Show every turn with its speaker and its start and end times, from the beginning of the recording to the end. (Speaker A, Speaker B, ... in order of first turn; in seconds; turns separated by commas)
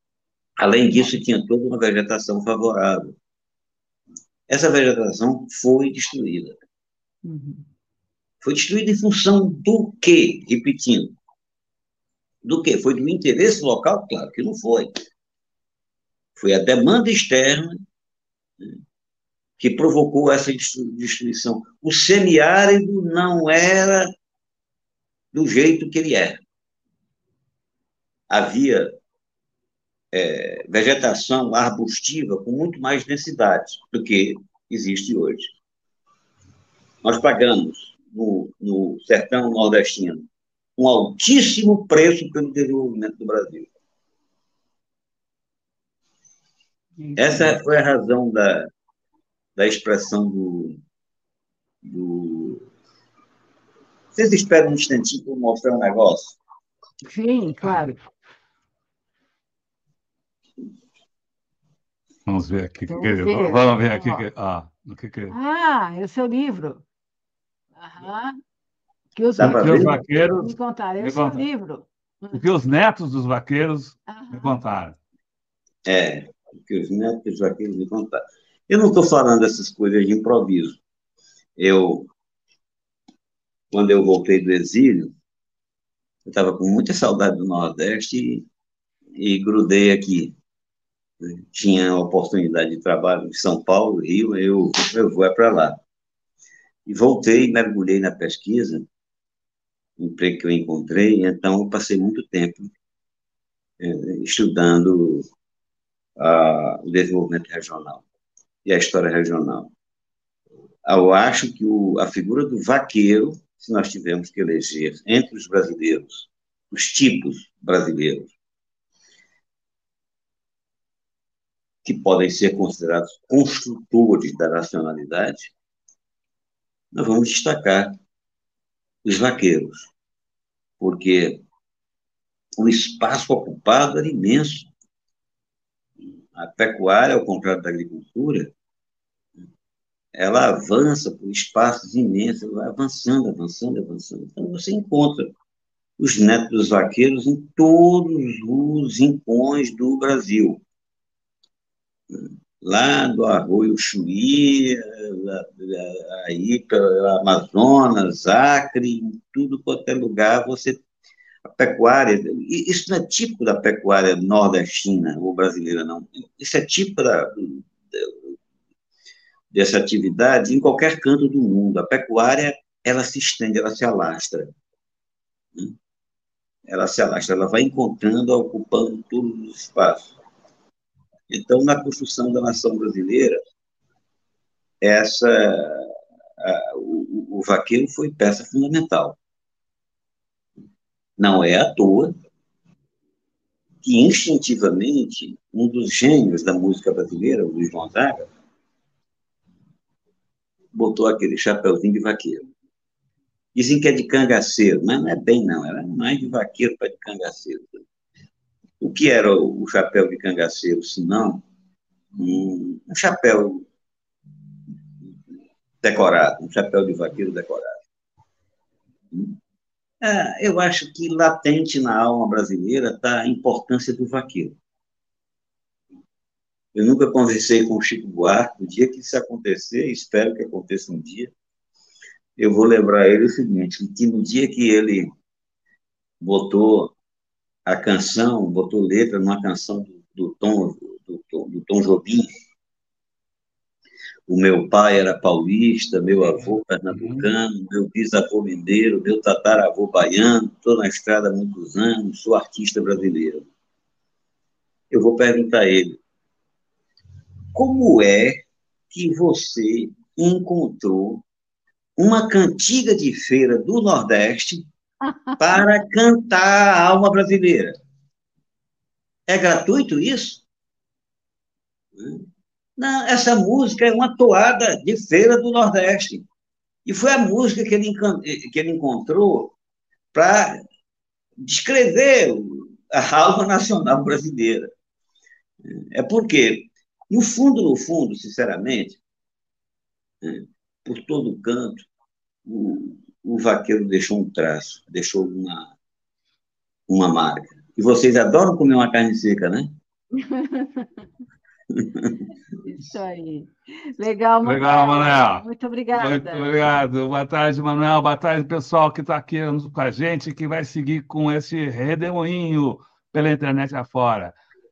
Speaker A: 0.6-3.2, Speaker A: 4.5-6.6, Speaker B: 7.2-7.7, Speaker A: 8.4-11.2, Speaker A: 12.4-14.9, Speaker A: 16.4-17.8, Speaker A: 19.6-24.1, Speaker A: 25.3-26.4, Speaker A: 28.3-28.9, Speaker A: 30.1-35.5, Speaker A: 37.0-40.3, Speaker A: 40.8-43.7, Speaker B: 47.0-47.7, Speaker A: 47.2-48.7, Speaker A: 49.6-50.8, Speaker A: 51.8-52.7, Speaker A: 54.1-56.4, Speaker B: 57.0-58.0, Speaker C: 62.3-65.3, Speaker B: 62.9-64.3, Speaker B: 65.3-66.8, Speaker B: 67.8-68.4, Speaker B: 69.2-72.4, Speaker A: 69.4-70.0, Speaker C: 69.4-71.5, Speaker C: 72.3-75.0, Speaker B: 74.1-74.6, Speaker A: 75.9-80.8, Speaker A: 81.6-82.1, Speaker A: 83.7-85.1, Speaker A: 86.2-88.5, Speaker A: 89.2-90.3, Speaker A: 91.2-95.8, Speaker A: 96.9-98.9, Speaker A: 100.0-102.7, Speaker A: 103.8-105.3, Speaker A: 106.2-108.0, Speaker A: 108.7-109.7, Speaker A: 110.9-118.3, Speaker A: 121.8-125.5, Speaker A: 126.9-128.0, Speaker A: 129.1-129.9, Speaker A: 130.8-131.4, Speaker A: 132.6-134.7, Speaker A: 136.3-138.5, Speaker A: 140.2-145.3, Speaker A: 146.0-150.6, Speaker A: 152.1-160.8, Speaker A: 161.4-168.3, Speaker A: 169.5-174.5, Speaker A: 176.7-180.2, Speaker A: 181.3-183.4, Speaker A: 184.8-189.2, Speaker A: 191.2-192.1, Speaker A: 193.8-198.3, Speaker A: 200.7-202.5, Speaker A: 203.6-207.8, Speaker A: 208.8-211.4, Speaker A: 212.2-213.7, Speaker A: 215.8-217.8, Speaker A: 219.1-219.4, Speaker A: 220.0-224.6, Speaker A: 226.7-231.3, Speaker A: 232.4-235.1, Speaker A: 236.2-236.9, Speaker A: 237.7-242.3, Speaker A: 244.3-253.5, Speaker C: 246.4-247.3, Speaker A: 254.9-256.0, Speaker A: 257.5-261.2, Speaker A: 262.0-264.6, Speaker B: 265.1-265.4, Speaker A: 265.4-267.8, Speaker A: 269.3-270.4, Speaker A: 272.0-272.3, Speaker A: 272.8-276.2, Speaker A: 276.9-279.5, Speaker A: 280.1-280.6, Speaker A: 281.4-284.7, Speaker A: 285.6-289.0, Speaker A: 290.2-291.9, Speaker A: 292.5-295.7, Speaker A: 296.9-299.7, Speaker B: 300.1-301.1, Speaker A: 301.7-302.3, Speaker B: 302.6-306.6, Speaker C: 304.4-314.4